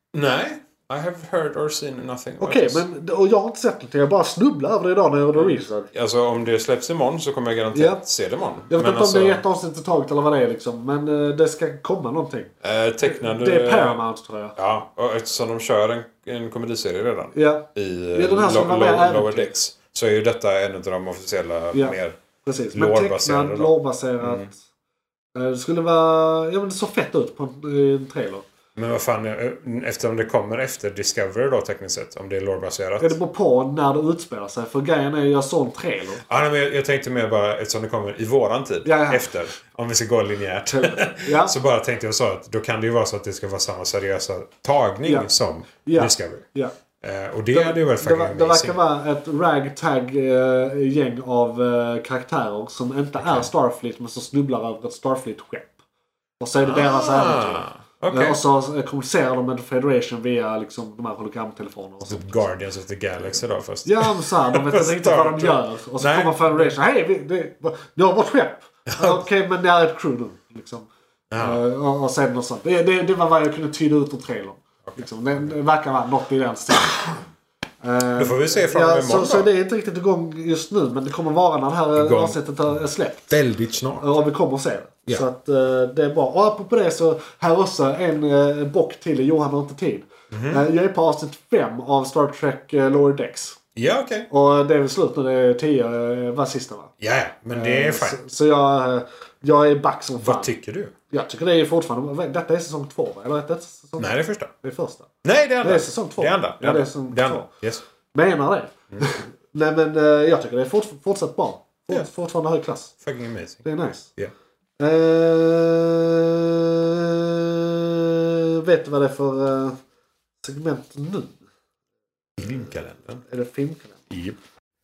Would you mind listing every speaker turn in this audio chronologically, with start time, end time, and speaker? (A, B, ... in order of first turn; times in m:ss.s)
0:00.1-0:02.8 A
0:02.4-0:05.9 B
0:05.3-0:09.4 A
0:07.7-0:08.0 B
0:08.7-0:14.6 B
0:12.6-0:14.0 A
0:14.6-0:22.2 A
0:17.3-0:19.5 B
0:21.7-0:24.6 B
0:22.7-0:24.5 A
0:25.3-0:28.4 B
0:28.8-0:33.2 A
0:33.0-0:36.2 B
0:36.2-0:46.4 A
0:38.8-0:39.3 B
0:40.7-0:41.5 B
0:45.0-0:45.3 B
0:45.8-0:46.7 B
0:47.0-0:48.8 A
0:47.5-0:55.8 B
0:53.2-0:53.5 A
0:56.4-1:02.5 B
0:56.6-0:58.4 A
1:02.0-1:06.8 A
1:03.8-1:17.2 B
1:08.9-1:09.2 A
1:11.3-1:11.6 A
1:14.8-1:15.5 A
1:17.8-1:23.4 B
1:18.2-1:19.5 A
1:21.9-1:22.7 A
1:23.3-1:24.1 A
1:24.0-1:33.6 B
1:30.3-1:30.7 A
1:33.8-1:34.3 A
1:34.3-1:36.9 B
1:37.0-1:38.2 A
1:37.5-1:40.5 B
1:40.2-1:40.9 A
1:41.1-1:45.1 B
1:44.0-1:44.5 A
1:45.2-1:47.8 A
1:45.6-1:47.5 B
1:48.1-1:53.0 B
1:53.0-1:53.6 A
1:53.6-1:54.1 B
1:54.8-1:59.8 B
2:00.4-2:01.4 B
2:02.4-2:03.2 A
2:03.2-2:04.1 B
2:04.1-2:04.4 A